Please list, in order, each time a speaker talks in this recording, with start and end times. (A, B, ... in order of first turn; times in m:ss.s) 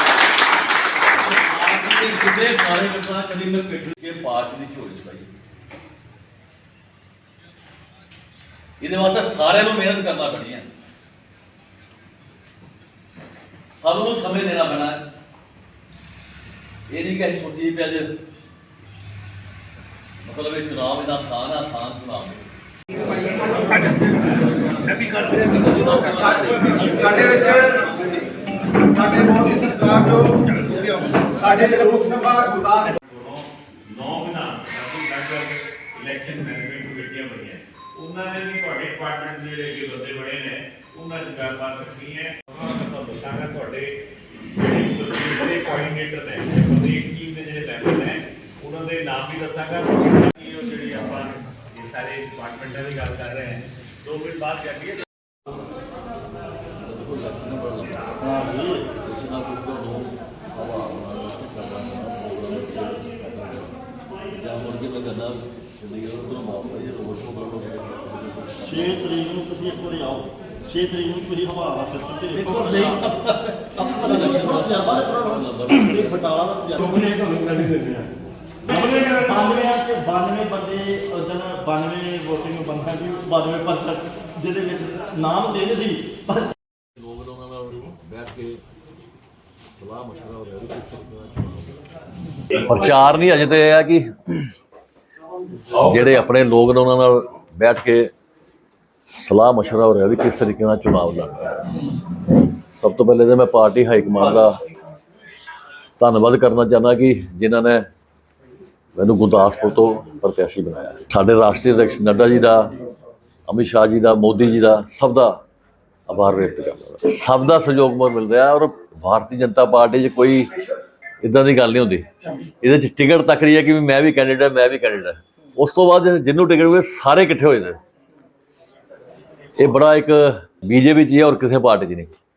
0:01.2-0:05.3 A
0:08.8-0:10.7 A
0:13.7-0:15.0 A
0:16.9-0:18.1 A
0:20.2-0:22.5 A
0:25.1-0:27.8 A
0:29.1-0:30.3 B
0:29.4-0:29.7 C
0:31.4-0:44.0 D
0:31.6-0:32.1 B
0:32.1-0:32.6 C
0:44.5-0:55.0 D
0:56.8-0:58.1 A
0:58.2-0:58.9 C
0:58.9-1:03.8 A
1:04.4-1:09.2 A
1:08.7-1:17.2 C
1:12.5-1:16.4 A
1:17.0-1:18.1 B
1:18.6-1:26.5 C
1:27.0-1:28.6 A
1:29.8-1:31.8 A
1:32.5-1:34.5 A
1:35.7-1:38.1 A
1:39.1-1:44.6 A
1:46.0-1:47.9 A
1:49.0-1:52.7 A
1:53.5-1:55.4 A
1:56.1-2:00.6 A
2:01.2-2:02.1 A
2:02.6-2:07.8 A
2:09.6-2:12.1 A